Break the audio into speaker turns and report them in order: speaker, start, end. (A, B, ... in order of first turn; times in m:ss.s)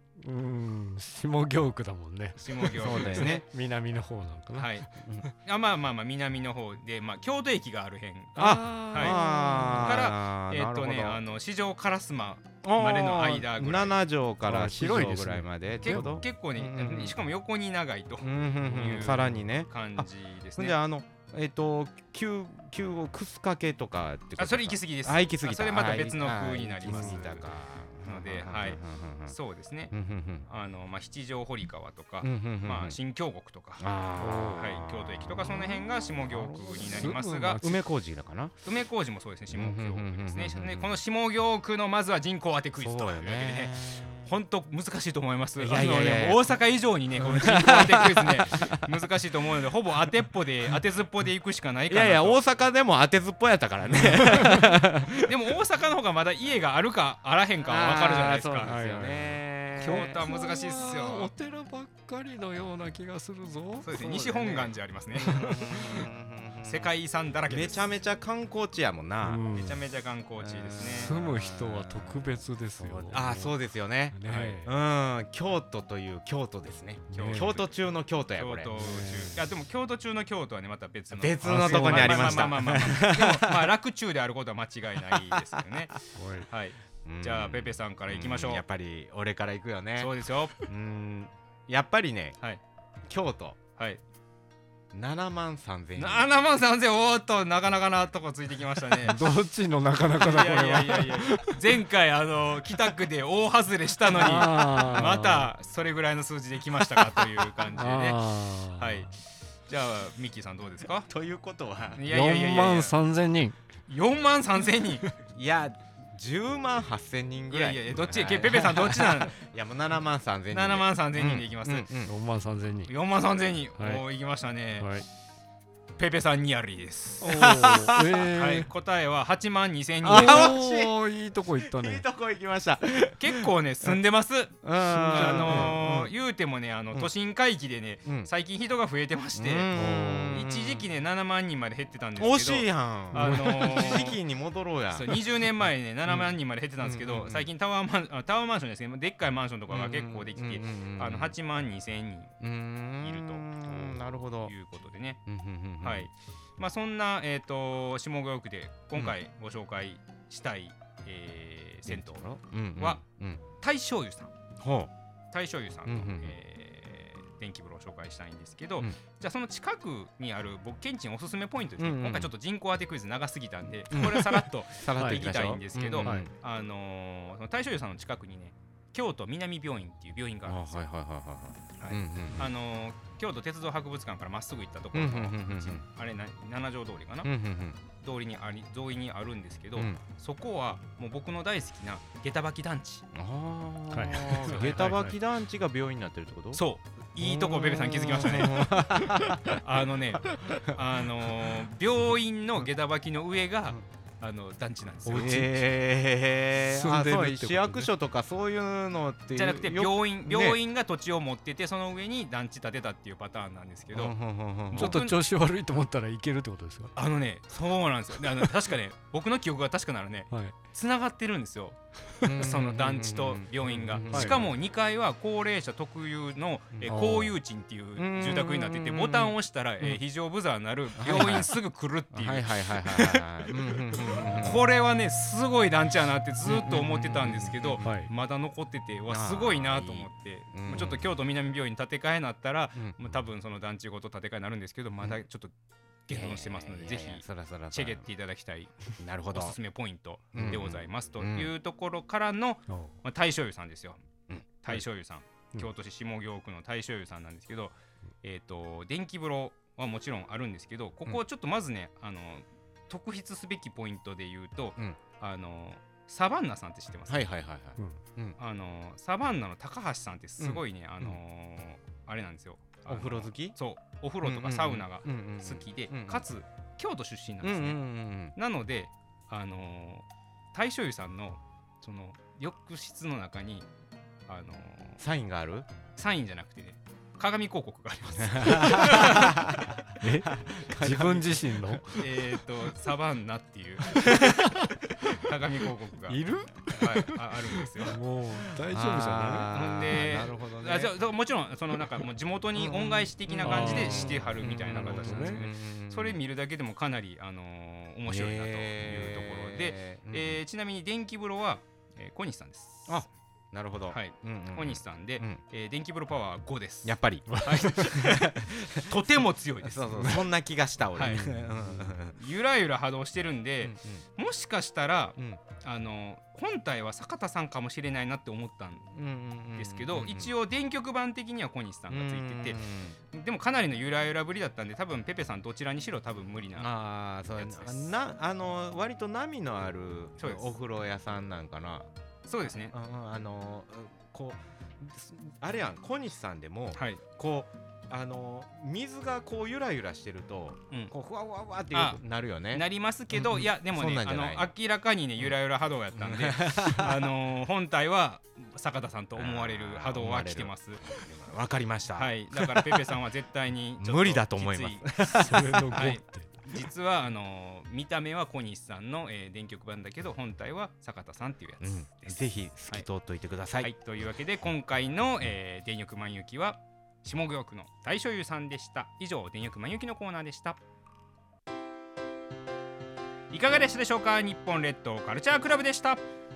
0:00.2-0:05.2 A
0:02.4-0:03.4 B
0:02.7-0:03.4 C
0:04.6-0:04.8 B
0:05.4-0:09.2 B
0:08.4-0:10.0 A
0:08.4-0:11.2 C
0:09.8-0:14.0 B
0:12.6-0:17.2 C
0:14.4-0:16.2 A
0:15.8-0:20.8 B
0:18.2-0:29.4 C
0:24.4-0:27.5 B
0:28.0-0:29.9 B
0:29.9-0:30.5 C
0:30.5-0:33.8 B
0:32.2-0:33.0 C
0:33.8-0:38.6 C
0:34.2-0:34.6 A
0:34.5-0:37.6 B
0:36.7-0:37.8 A
0:38.6-0:52.4 B
0:39.5-0:40.9 C
0:42.8-0:44.1 C
0:45.6-0:46.6 C
0:47.2-0:48.9 C
0:51.9-0:55.3 C
0:55.2-0:58.7 B
0:57.6-1:00.2 C
0:58.6-1:03.9 A
0:59.8-1:01.3 B
1:03.8-1:05.4 B
1:03.8-1:04.7 C
1:05.2-1:06.1 A
1:05.3-1:06.9 C
1:06.6-1:07.9 B
1:07.5-1:09.4 C
1:09.2-1:09.8 A
1:09.5-1:11.1 B
1:10.4-1:12.3 C
1:10.8-1:13.6 A
1:12.8-1:19.3 C
1:14.1-1:14.7 A
1:14.2-1:14.6 B
1:17.1-1:17.6 A
1:17.1-1:17.8 B
1:18.4-1:28.6 B
1:18.8-1:19.4 A
1:21.1-1:23.7 C
1:21.4-1:22.7 A
1:25.1-1:25.6 C
1:26.1-1:26.5 A
1:27.0-1:30.1 C
1:30.0-1:30.5 B
1:30.7-1:32.4 C
1:33.1-1:33.6 C
1:34.9-1:36.3 C
1:36.0-1:39.2 B
1:39.0-1:41.6 A
1:40.2-1:51.1 B
1:44.1-1:45.5 A
1:44.8-1:45.2 C
1:47.1-1:49.1 A
1:51.1-1:52.0 C
1:52.0-1:52.9 B
1:52.1-1:53.6 A
1:53.9-1:55.0 B
1:55.3-2:02.1 C
1:57.5-1:59.3 B
2:00.5-2:01.9 B
2:02.0-2:02.9 A
2:02.9-2:04.9 B
2:03.8-2:04.0 A
2:04.8-2:05.0 A
2:06.0-2:07.4 B
2:07.2-2:08.7 A
2:07.3-2:08.2 C
2:08.2-2:10.5 B
2:10.0-2:11.0 C
2:10.0-2:12.0 A
2:11.6-2:14.0 C
2:13.2-2:19.7 B
2:14.6-2:16.1 C
2:14.8-2:15.8 A
2:19.3-2:20.8 C
2:19.7-2:20.4 A
2:20.3-2:24.2 B
2:22.2-2:25.2 C
2:23.1-2:24.2 A
2:24.9-2:32.3 B
2:26.1-2:27.5 C
2:29.7-2:31.4 C
2:32.4-2:34.5 C
2:33.0-2:35.2 B
2:35.2-2:36.1 C
2:35.8-2:42.2 B
2:41.9-2:43.4 C
2:42.8-2:43.0 B
2:43.6-2:44.3 B
2:44.6-2:44.9 C
2:45.3-3:00.8 B
2:45.8-2:46.4 C
2:51.8-2:52.3 C
2:53.9-2:56.3 C
2:54.0-2:54.3 A
2:55.0-2:55.3 A
3:00.4-3:02.5 C
3:01.8-3:07.3 B
3:04.9-3:05.8 C
3:07.2-3:07.8 C
3:08.0-3:13.0 B
3:13.1-3:16.6 C
3:13.9-3:15.2 A
3:16.5-3:18.8 B
3:17.2-3:19.6 C
3:19.0-3:19.4 A
3:19.5-3:25.6 B
3:25.0-3:30.6 C
3:26.5-3:27.9 A
3:29.3-3:34.1 B
3:33.9-3:35.0 C
3:34.7-3:35.2 B
3:34.7-3:36.9 A
3:36.9-4:05.5 B
3:42.2-3:44.5 C
3:44.1-3:44.4 A
3:46.7-3:47.3 C
3:46.9-3:47.2 A
3:48.0-3:50.0 C
3:50.9-3:51.6 C
3:52.1-3:54.7 C
3:56.4-3:58.0 C
3:57.8-3:58.1 A
3:59.1-4:01.1 C
4:02.8-4:03.2 C
4:06.1-4:08.7 B
4:06.1-4:08.1 C
4:09.0-4:09.6 C
4:09.3-4:14.0 B
4:10.3-4:11.5 C
4:12.7-4:12.9 A
4:14.3-4:14.8 C
4:14.6-4:27.3 B
4:27.1-4:28.4 C
4:28.4-4:37.8 B
4:30.4-4:31.2 C
4:32.9-4:33.6 C
4:34.2-4:36.2 C
4:37.4-4:38.4 C
4:38.3-4:43.7 B
4:44.3-4:45.0 B
4:45.0-4:45.7 C
4:46.0-4:49.4 B
4:48.2-4:52.0 C
4:50.0-4:52.0 A
4:52.0-4:54.4 B
4:54.0-4:55.2 A
4:54.1-4:54.4 C
4:55.1-4:58.0 B
4:56.1-4:59.7 A
4:58.6-5:00.9 C
4:59.5-5:13.0 B
5:02.5-5:06.2 C
5:03.4-5:05.4 A
5:08.1-5:10.4 C
5:12.9-5:15.4 C
5:13.9-5:20.2 B
5:16.8-5:18.9 C
5:19.6-5:22.2 C
5:21.0-5:28.9 B
5:23.6-5:24.0 C
5:28.9-5:30.3 C
5:29.6-5:32.6 B
5:31.9-5:33.0 C
5:33.1-5:36.7 B
5:36.6-5:41.9 C
5:37.3-5:37.9 B
5:40.2-5:40.5 B
5:42.2-5:42.7 B
5:42.7-5:54.5 C
5:46.7-5:47.0 B
5:51.7-5:52.0 B
5:52.5-6:00.8 B
5:55.9-5:57.1 C
5:59.2-6:03.0 C
6:01.9-6:12.9 B
6:03.8-6:05.8 C
6:05.1-6:06.3 A
6:11.6-6:13.7 C
6:13.6-6:20.6 B
6:23.3-6:26.0 B